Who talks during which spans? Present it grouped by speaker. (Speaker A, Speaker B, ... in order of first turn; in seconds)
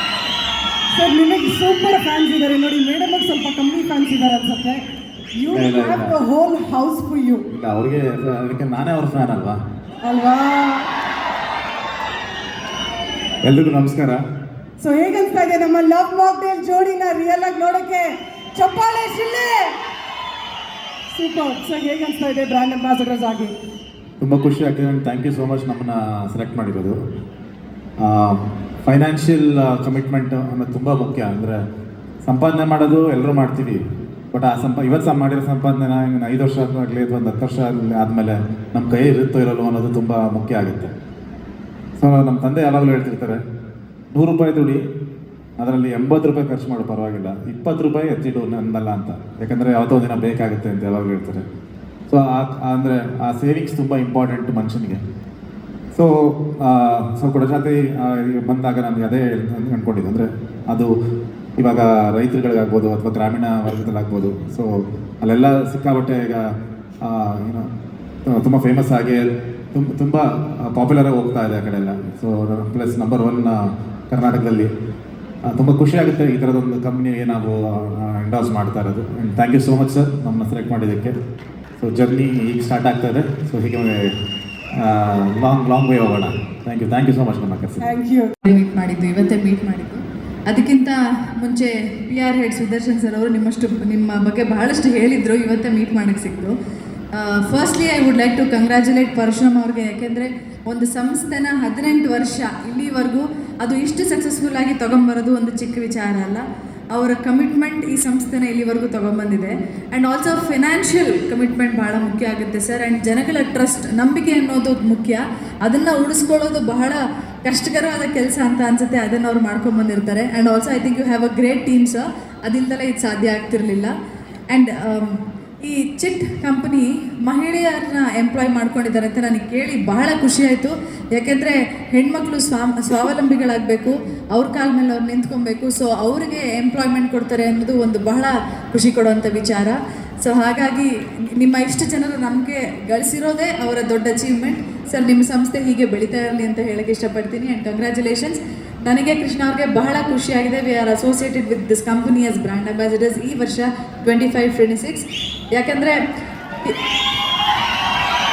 Speaker A: 0.9-7.4, 10.0-10.9, 14.8-19.7, 21.1-23.5, 87.8-88.3
Speaker B: 5.5-6.2, 7.5-9.6, 13.4-14.2, 24.2-26.9, 28.0-31.6, 32.2-33.8, 34.3-40.9, 42.0-43.4, 44.1-44.8, 45.6-51.4, 52.1-55.0, 55.9-60.9, 61.6-64.7, 65.2-66.5, 67.0-67.7, 68.3-73.6, 74.1-74.7, 75.5-81.2, 81.8-84.1, 84.7-87.9
Speaker C: 88.4-96.5, 97.1-123.9, 124.5-156.0